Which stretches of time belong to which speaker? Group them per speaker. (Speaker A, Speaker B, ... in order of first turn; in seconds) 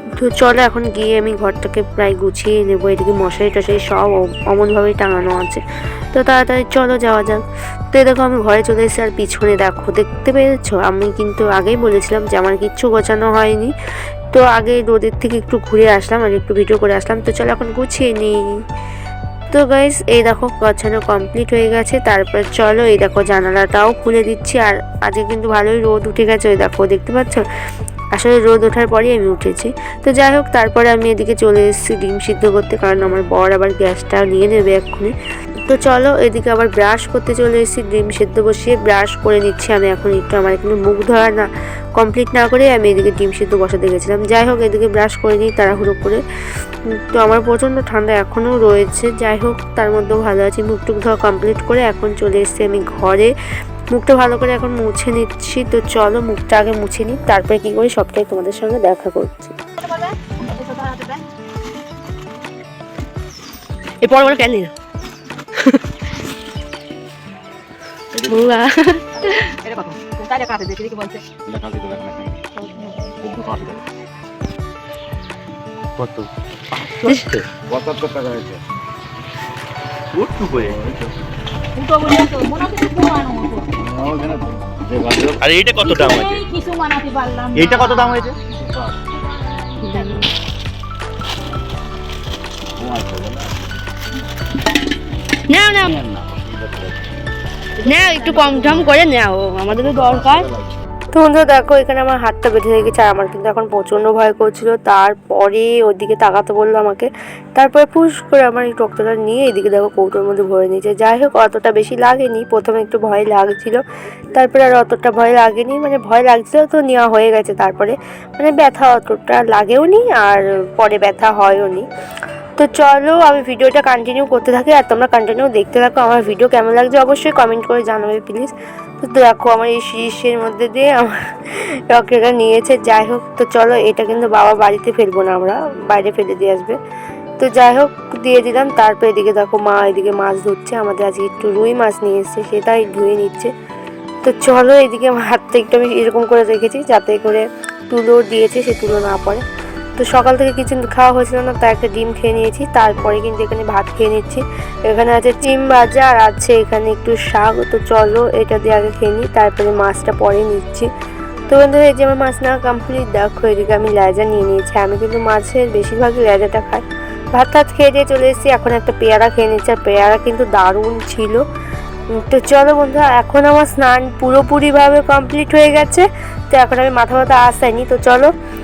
Speaker A: 0.2-5.6, 6.1-13.7, 14.3-18.4, 19.5-27.4, 28.1-35.1, 35.7-41.5, 42.0-46.2, 47.1-53.3, 53.9-59.5, 101.1-113.8, 114.3-121.8, 122.6-128.5, 129.0-131.1, 131.9-136.8, 137.4-143.5, 144.2-149.4, 150.0-160.9, 161.5-171.4, 172.1-178.3
Speaker B: 59.8-61.2, 69.2-71.2, 72.5-73.5, 81.8-83.7, 85.8-88.3, 89.3-90.3, 97.8-98.9
Speaker C: 64.0-64.7, 68.3-69.5, 89.9-90.2, 95.5-95.9, 97.8-100.5
Speaker D: 68.2-68.5, 71.5-72.3, 73.3-73.8, 77.7-78.6, 80.5-81.0, 83.8-85.4, 92.8-93.5, 95.7-97.0, 99.8-100.7
Speaker E: 80.1-80.8, 85.4-86.4, 87.5-88.3